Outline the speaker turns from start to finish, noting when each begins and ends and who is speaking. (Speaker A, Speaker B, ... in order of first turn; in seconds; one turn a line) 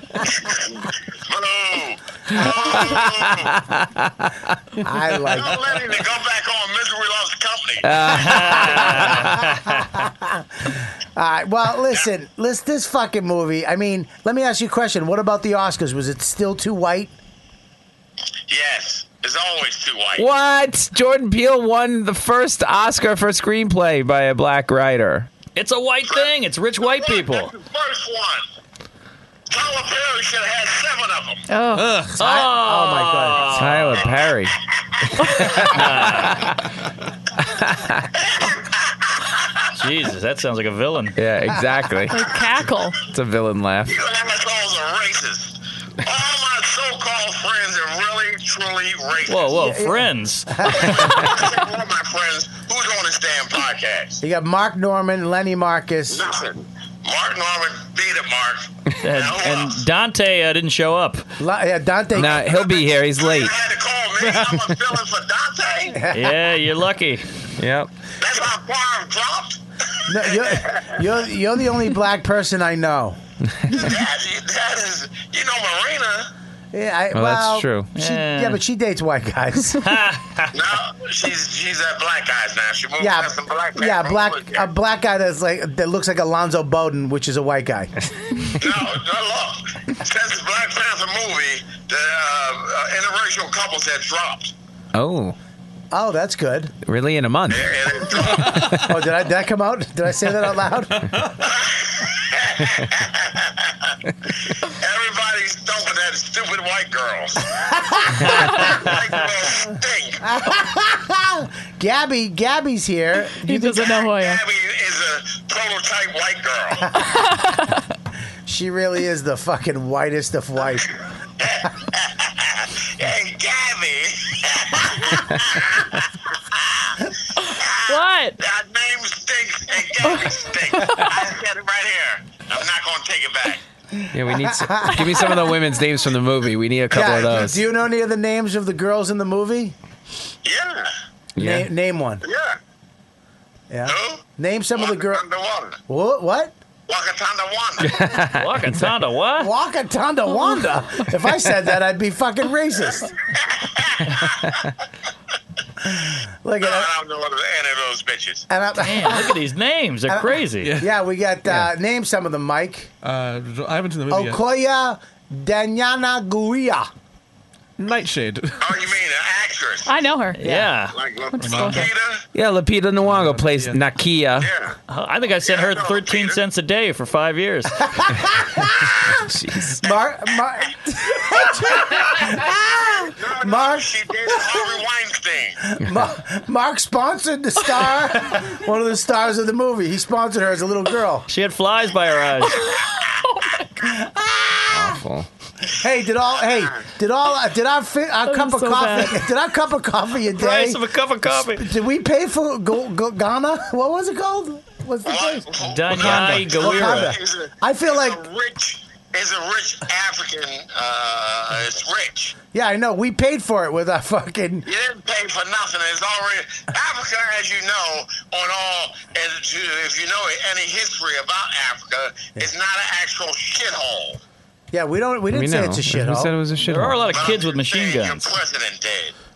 Speaker A: 0.4-3.5
Speaker B: 2.4-4.3
Speaker C: 4.8-5.7
Speaker A: 5.2-8.4
Speaker B: 7.8-9.4
Speaker D: 8.1-9.8
Speaker C: 8.3-9.2
Speaker C: 10.1-17.1
Speaker A: 18.5-20.3
Speaker B: 20.2-25.3
Speaker D: 25.6-27.5
Speaker A: 26.1-28.4
Speaker A: 29.5-31.4
Speaker E: 31.5-31.9
Speaker F: 31.8-32.1
Speaker C: 32.2-33.9
Speaker D: 32.2-33.9
Speaker B: 33.5-34.5
Speaker A: 33.9-34.3
Speaker B: 35.2-36.6
Speaker D: 35.6-36.4
Speaker B: 37.4-38.0
Speaker D: 39.7-41.1
Speaker B: 41.1-42.2
Speaker E: 42.1-43.0
Speaker B: 43.1-44.0
Speaker A: 43.9-49.7
Speaker D: 49.3-51.1
Speaker C: 49.5-51.0
Speaker A: 50.7-54.2
Speaker C: 54.2-56.2
Speaker A: 56.1-59.8
Speaker D: 59.0-61.2
Speaker C: 61.4-62.4
Speaker B: 62.1-63.5
Speaker A: 62.3-66.0
Speaker C: 65.9-66.3
Speaker D: 66.1-67.2
Speaker B: 67.6-67.9
Speaker A: 68.2-71.0
Speaker C: 70.1-73.2
Speaker B: 73.5-73.9
Speaker A: 73.7-76.3
Speaker C: 76.7-79.9
Speaker B: 77.1-77.9
Speaker D: 78.0-78.6
Speaker D: 79.8-80.5
Speaker A: 80.5-84.7
Speaker C: 83.0-87.9
Speaker A: 88.6-94.5
Speaker B: 94.9-95.3
Speaker C: 95.9-96.7
Speaker B: 96.8-97.7
Speaker A: 97.5-98.8
Speaker C: 98.7-101.1
Speaker A: 101.4-103.9
Speaker A: 104.6-110.2
Speaker D: 108.2-109.1
Speaker C: 110.2-113.9
Speaker E: 113.4-114.4
Speaker A: 113.9-116.9
Speaker E: 117.0-117.8
Speaker C: 118.5-120.9
Speaker A: 121.4-126.0
Speaker A: 126.5-126.9
Speaker A: 127.6-133.6
Speaker E: 127.9-128.4
Speaker E: 130.0-131.2
Speaker C: 133.9-135.2
Speaker B: 134.1-137.6
Speaker E: 135.0-135.5
Speaker C: 136.9-139.7
Speaker A: 140.4-140.9
Speaker C: 141.4-142.2
Speaker B: 141.4-141.7
Speaker A: 142.2-142.6
Speaker C: 143.7-145.2
Speaker A: 143.8-145.8
Speaker C: 145.9-146.5
Speaker A: 146.9-148.0
Speaker B: 147.8-148.4
Speaker D: 147.9-149.5
Speaker C: 149.4-153.1
Speaker A: 153.6-154.5
Speaker C: 155.8-156.9
Speaker A: 156.6-158.5
Speaker C: 158.5-159.3
Speaker D: 158.8-160.7
Speaker C: 160.1-162.9
Speaker F: 160.6-160.9
Speaker F: 163.0-164.4
Speaker C: 164.1-166.9
Speaker F: 167.8-168.7
Speaker A: 168.6-170.0
Speaker E: 169.8-170.4
Speaker D: 170.4-171.0
Speaker C: 170.4-170.7
Speaker A: 170.8-172.2
Speaker E: 171.3-171.9
Speaker F: 171.4-171.8
Speaker B: 172.3-174.5
Speaker F: 173.0-173.8
Speaker A: 174.4-174.7
Speaker D: 174.9-177.8
Speaker A: 175.4-176.4
Speaker C: 178.0-179.0
Speaker B: 179.1-179.8
Speaker C: 179.8-184.6
Speaker A: 181.4-182.4
Speaker A: 183.2-185.6
Speaker C: 185.6-191.3
Speaker D: 191.3-192.6
Speaker E: 192.5-193.9
Speaker C: 193.8-195.0
Speaker B: 194.7-195.3
Speaker C: 195.7-208.2
Speaker E: 198.2-199.2
Speaker D: 200.3-201.6
Speaker A: 205.0-212.3
Speaker D: 205.6-207.2
Speaker C: 212.5-214.7
Speaker A: 214.6-224.2
Speaker C: 224.7-226.3
Speaker B: 225.3-227.1
Speaker D: 226.6-228.3
Speaker A: 227.0-229.1